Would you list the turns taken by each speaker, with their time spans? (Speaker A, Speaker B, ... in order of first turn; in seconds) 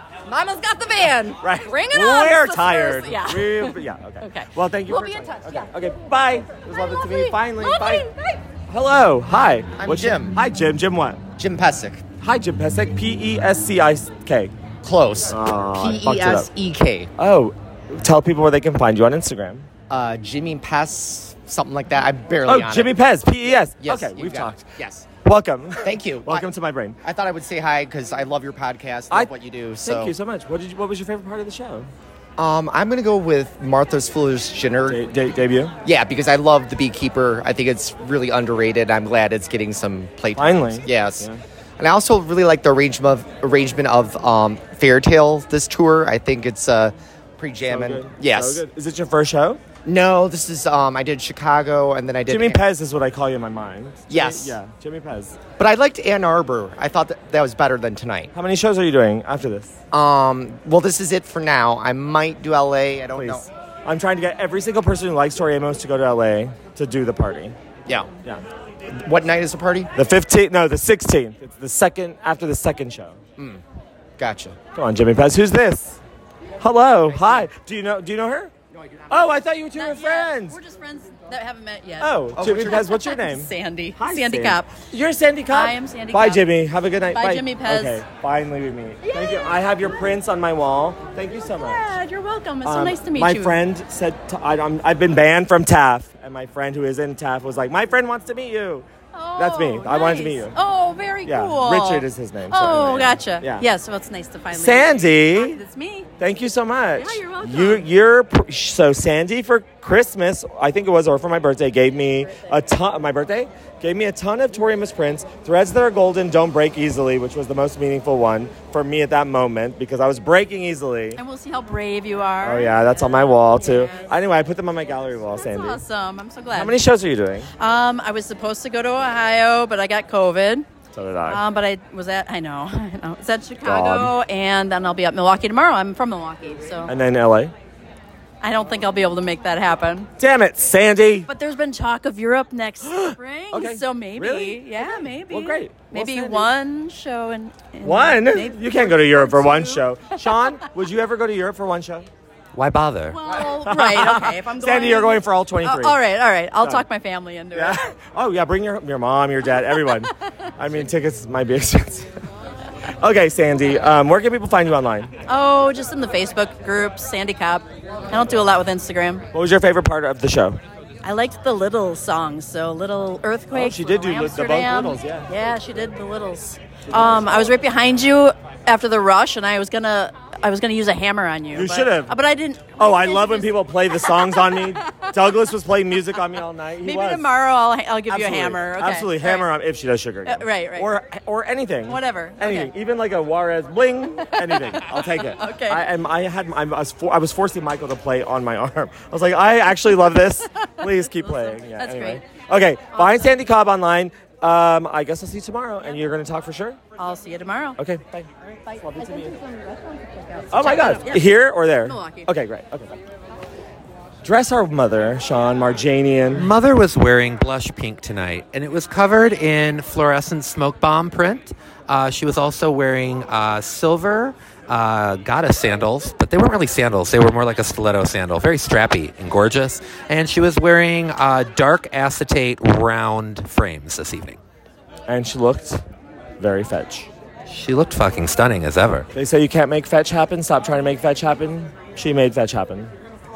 Speaker A: 0.3-5.6, 7.0-8.3
Speaker B: 1.4-8.1, 8.7-11.2, 12.2-14.5, 15.3-16.5, 17.2-19.7, 22.4-27.0, 29.1-31.9, 34.9-35.8, 40.4-41.4, 47.7-49.6, 52.3-55.4, 58.3-59.8, 63.1-67.6, 70.0-73.2, 74.7-76.0, 76.6-78.5, 79.1-80.6, 82.0-91.9, 92.6-100.5, 101.2-103.7, 104.5-105.6, 106.2-121.2, 122.4-125.8, 126.5-127.5, 130.9-131.4, 133.6-134.1, 136.9-137.5, 140.2-141.3, 142.9-146.5, 147.8-152.1, 153.4-156.0, 156.6-156.8, 157.5-162.1, 163.0-165.1, 169.3-170.6, 173.5-175.3, 176.9-177.5, 181.5-182.2, 182.8-187.3, 188.1-206.8, 207.8-209.4, 210.5-213.0, 214.2-216.5, 235.1-235.8, 236.4-237.1, 239.1-242.9
Speaker C: 5.1-5.4, 79.7-84.8, 85.5-86.5, 87.1-88.0, 89.0-89.6, 91.5-93.6, 99.1-106.1, 107.0-107.9, 121.2-124.2, 125.3-126.8, 127.6-130.7, 131.3-136.9, 138.4-140.1, 141.3-150.2, 153.1-157.8, 165.3-169.3, 171.0-185.1, 186.8-189.5, 190.3-190.9, 191.9-192.7, 194.2-195.9, 200.9-202.2, 202.9-203.4, 207.0-207.8, 208.9-209.3, 210.1-212.3
Speaker D: 9.8-10.4, 11.4-12.1, 14.8-17.1, 19.9-22.9, 23.8-25.1, 25.8-26.5, 27.0-30.1, 32.4-35.0, 35.8-41.3, 41.8-48.6, 49.9-52.6, 54.1-54.6, 55.6-58.3, 59.9-63.5, 67.9-68.1, 68.9-69.9, 74.2-74.6, 82.4-82.7
Speaker E: 152.5-153.2, 216.3-234.4, 237.5-239.1